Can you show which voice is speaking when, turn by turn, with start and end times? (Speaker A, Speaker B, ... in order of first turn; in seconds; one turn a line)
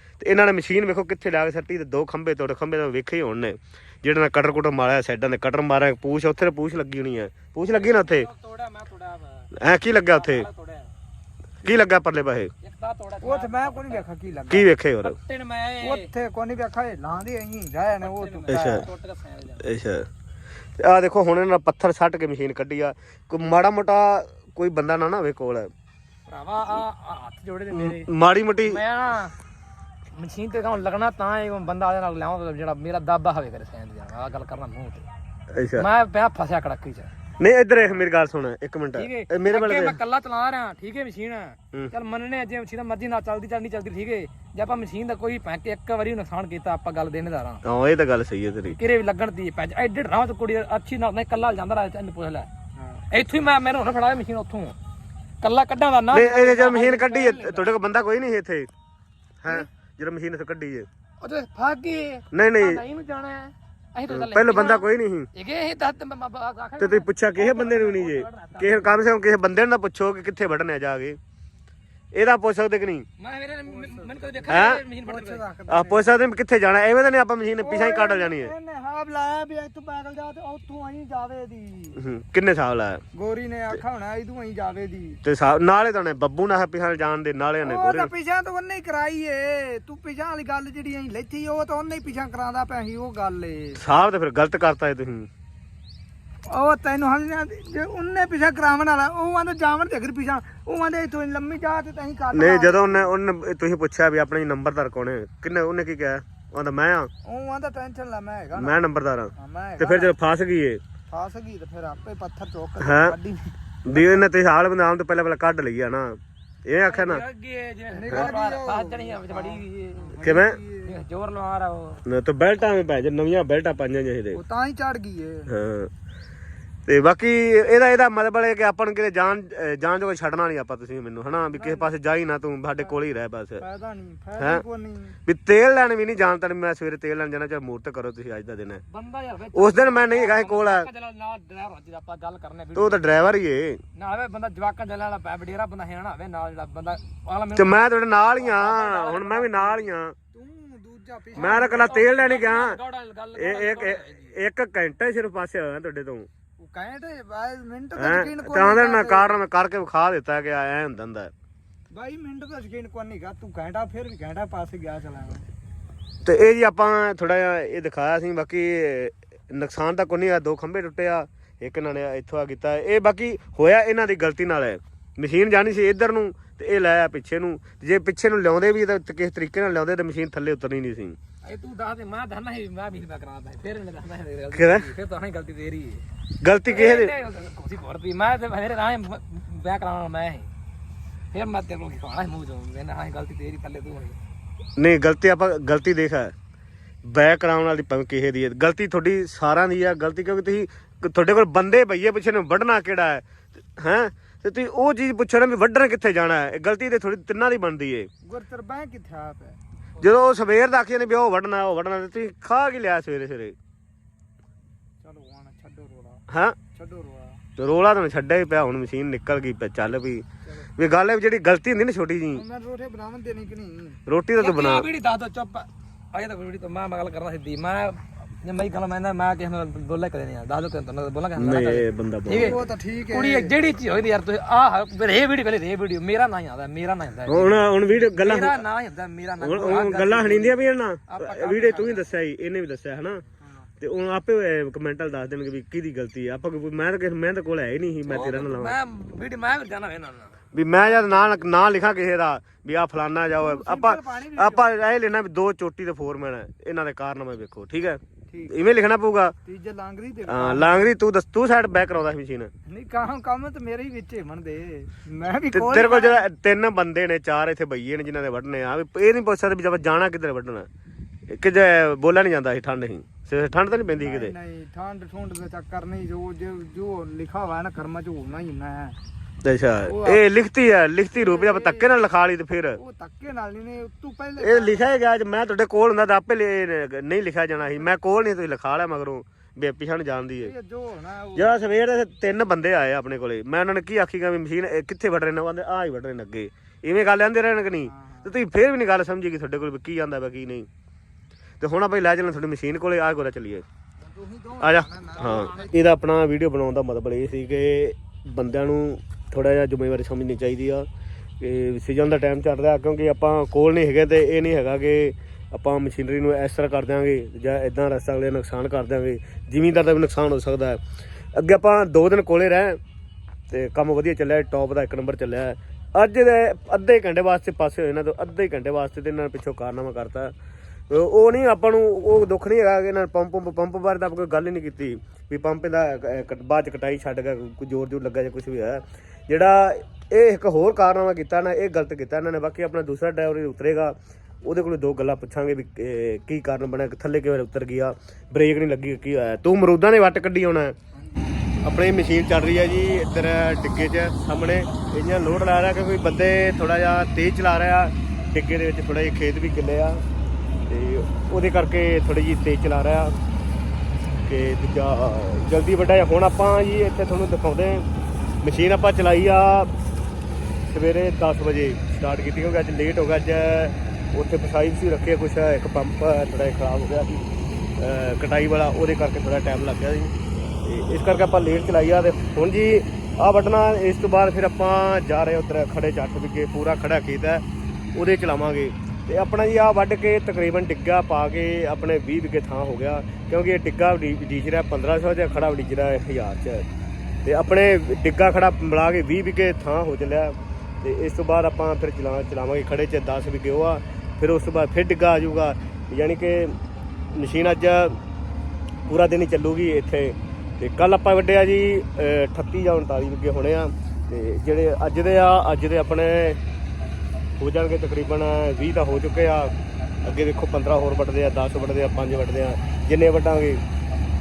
Speaker A: 0.2-8.3
Speaker B: 7.7-10.9
Speaker A: 9.5-10.5
Speaker A: 11.6-12.5
Speaker B: 12.6-14.0
Speaker C: 13.2-14.8
Speaker A: 14.5-15.2
Speaker B: 15.0-16.1
Speaker C: 15.8-18.9
Speaker B: 18.0-19.7
Speaker A: 18.5-18.9
Speaker A: 19.6-20.1
Speaker A: 20.8-25.7
Speaker B: 26.3-28.1
Speaker A: 27.7-28.8
Speaker B: 28.6-29.3
Speaker B: 30.1-35.0
Speaker A: 35.5-35.9
Speaker B: 35.8-37.1
Speaker A: 37.4-40.0
Speaker B: 37.8-38.0
Speaker B: 38.9-47.6
Speaker A: 47.6-48.8
Speaker B: 48.7-52.5
Speaker B: 53.1-54.8
Speaker B: 55.4-57.7
Speaker A: 56.1-58.7
Speaker A: 59.4-60.9
Speaker B: 61.2-69.0
Speaker A: 62.3-62.8
Speaker A: 64.1-65.3
Speaker A: 66.8-71.2
Speaker A: 72.1-73.0
Speaker B: 73.2-75.4
Speaker C: 73.6-76.1
Speaker A: 74.5-74.8
Speaker A: 75.7-78.5
Speaker C: 77.6-82.0
Speaker A: 82.0-83.0
Speaker C: 83.1-85.2
Speaker A: 85.2-88.1
Speaker C: 87.6-93.8
Speaker A: 93.8-95.3
Speaker C: 96.5-103.1
Speaker A: 102.3-107.1
Speaker C: 107.2-108.8
Speaker A: 108.5-110.8
Speaker C: 109.3-110.1
Speaker C: 111.1-114.2
Speaker A: 112.8-113.2
Speaker A: 113.9-117.2
Speaker B: 116.9-120.2
Speaker C: 117.9-121.0
Speaker A: 120.2-120.6
Speaker B: 120.8-122.0
Speaker A: 122.0-124.4
Speaker C: 124.3-125.5
Speaker A: 125.5-125.9
Speaker A: 126.8-133.6
Speaker C: 131.5-131.9
Speaker C: 133.6-135.2
Speaker A: 135.2-138.8
Speaker B: 138.9-143.2
Speaker A: 139.5-140.9
Speaker A: 142.7-143.8
Speaker B: 143.9-147.8
Speaker A: 147.6-150.1
Speaker B: 148.3-149.8
Speaker C: 150.3-151.9
Speaker A: 151.3-152.8
Speaker B: 151.4-154.4
Speaker A: 153.3-156.3
Speaker C: 156.6-159.4
Speaker A: 158.0-161.3
Speaker C: 161.9-165.4
Speaker A: 166.2-181.2
Speaker B: 181.4-186.0
Speaker A: 184.5-184.9
Speaker A: 186.4-187.1
Speaker B: 186.6-190.5
Speaker B: 191.3-194.2
Speaker A: 194.8-196.3
Speaker A: 197.0-208.1
Speaker C: 208.2-210.1
Speaker A: 210.0-213.6
Speaker C: 215.0-217.4
Speaker A: 216.3-216.6
Speaker A: 217.6-220.2
Speaker A: 220.8-222.4
Speaker C: 222.3-224.0
Speaker A: 224.1-224.9
Speaker B: 224.4-232.6
Speaker A: 231.3-232.5
Speaker C: 232.3-233.5
Speaker B: 233.1-242.1
Speaker A: 237.3-238.6
Speaker A: 239.4-243.2
Speaker A: 243.8-248.8
Speaker B: 248.1-251.4
Speaker A: 250.5-259.3
Speaker C: 253.3-254.7
Speaker C: 259.4-260.9
Speaker A: 260.3-262.5
Speaker C: 262.6-266.2
Speaker A: 265.5-270.7
Speaker A: 271.3-274.3
Speaker C: 274.0-279.0
Speaker A: 279.4-282.8
Speaker C: 279.8-280.2
Speaker C: 281.1-281.9
Speaker C: 282.8-284.8
Speaker A: 284.4-290.5
Speaker C: 290.4-291.7
Speaker A: 291.4-300.7
Speaker C: 297.8-298.3
Speaker A: 301.6-303.6
Speaker C: 304.0-305.8
Speaker A: 304.6-310.9
Speaker A: 311.4-320.8
Speaker A: 321.3-322.8
Speaker A: 323.5-330.3
Speaker A: 330.9-350.8
Speaker C: 350.9-351.6
Speaker A: 351.6-360.0
Speaker A: 360.7-363.1
Speaker A: 364.2-367.9
Speaker A: 368.4-369.7
Speaker A: 370.7-377.2
Speaker A: 377.8-387.4
Speaker A: 387.9-396.6
Speaker A: 397.2-406.6
Speaker A: 407.1-408.0
Speaker A: 408.9-416.4
Speaker A: 417.4-419.5
Speaker A: 420.0-423.6